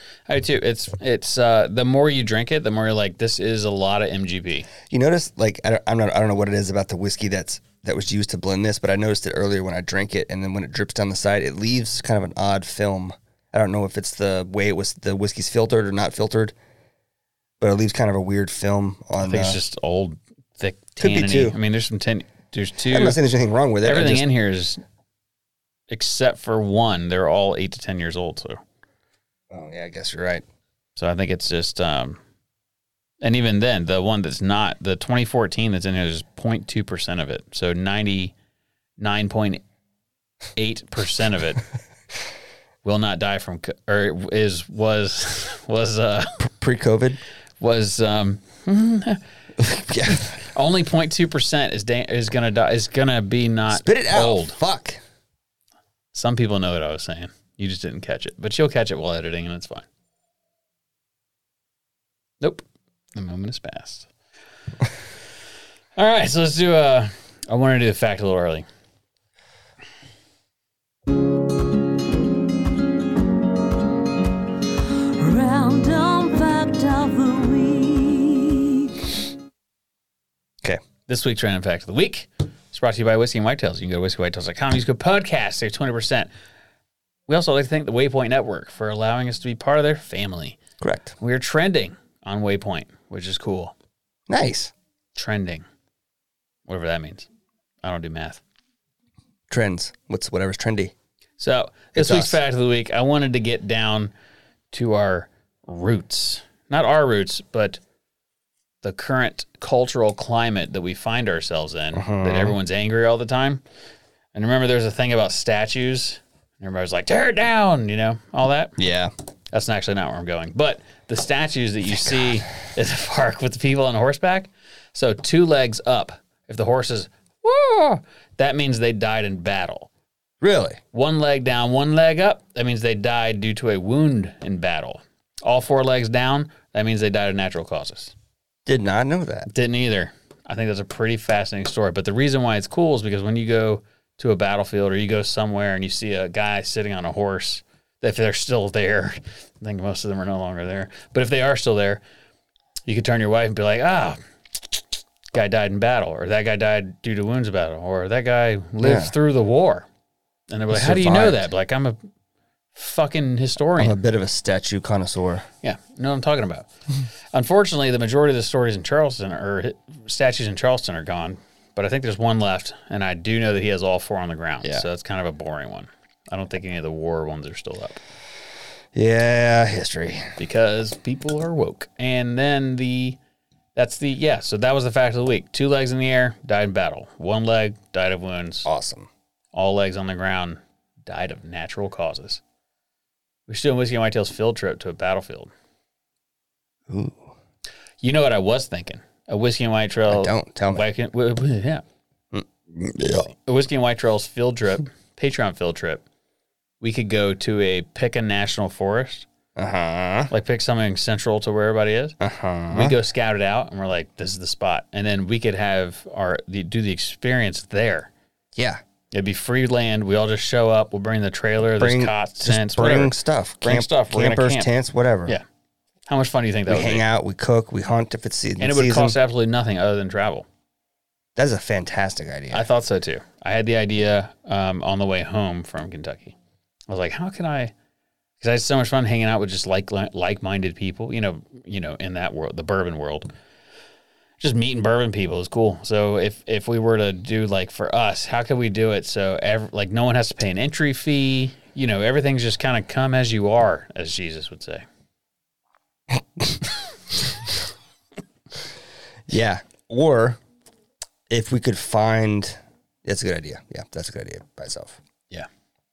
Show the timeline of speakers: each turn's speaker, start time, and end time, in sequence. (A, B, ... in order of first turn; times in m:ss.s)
0:00.3-0:04.7 A
0:04.9-0:16.5 B
0:17.6-0:19.6 B
0:19.2-0:23.2 A
0:21.0-0:21.6 B
0:22.8-0:24.2 B
0:23.8-0:24.8 A
0:25.9-0:28.6 A
0:29.5-0:30.4 B
0:31.0-0:32.2 A
0:33.2-0:38.3 A
0:39.0-0:39.6 A
0:40.6-0:41.6 A
0:42.8-0:46.4 A
0:46.4-0:47.2 B
0:47.6-0:49.2 A
0:49.6-0:50.4 B
0:50.3-0:54.6 A
0:53.7-0:55.0 B
0:56.1-0:59.8 A
1:03.1-1:04.1 A
1:06.0-1:08.6 A
1:15.2-1:18.7 C
1:21.1-1:26.3 A
1:27.3-1:30.6 A
1:30.8-1:31.1 B
1:31.2-1:33.7 A
1:34.3-1:34.7 B
1:35.2-1:35.6 A
1:36.7-1:37.3 A
1:37.8-1:38.4 A
1:39.5-1:40.9 B
1:41.4-1:44.1 A
1:41.9-1:42.4 B
1:44.7-1:47.8 A
1:48.8-1:53.6 A
1:51.9-1:52.6 B
1:54.3-1:58.8 A
1:58.8-1:59.1 B
1:59.5-2:09.9 A
2:10.4-2:10.8 B
2:10.9-2:18.1 A
2:18.6-2:19.5 B
2:19.5-2:32.0 A
2:32.8-2:34.2 A
2:35.3-2:39.8 A
2:38.8-2:39.1 B
2:40.5-2:42.0 A
2:40.7-2:41.5 B
2:42.7-2:44.0 A
2:43.8-2:45.4 B
2:45.6-2:46.7 A
2:47.3-2:58.0 A
2:58.9-3:00.3 B
3:00.4-3:03.2 A
3:03.8-3:08.7 A
3:08.6-3:09.1 B
3:09.5-3:12.4 A
3:13.5-3:15.5 A
3:16.9-3:17.3 B
3:18.0-3:21.8 A
3:20.1-3:20.8 B
3:22.3-3:23.3 B
3:23.3-3:26.0 A
3:26.8-3:29.2 A
3:29.6-3:30.3 B
3:30.3-3:32.2 A
3:32.2-3:33.0 B
3:32.7-3:38.1 A
3:38.6-3:38.8 B
3:39.1-3:44.7 A
3:41.7-3:45.4 B
3:46.1-3:47.0 A
3:46.7-3:49.2 B
3:48.6-3:50.4 A
3:51.4-3:52.7 B
3:52.5-3:56.4 A
3:56.9-3:57.7 A
3:58.4-4:03.3 A
4:04.4-4:14.8 A
4:19.3-4:20.4 B
4:21.3-4:25.0 B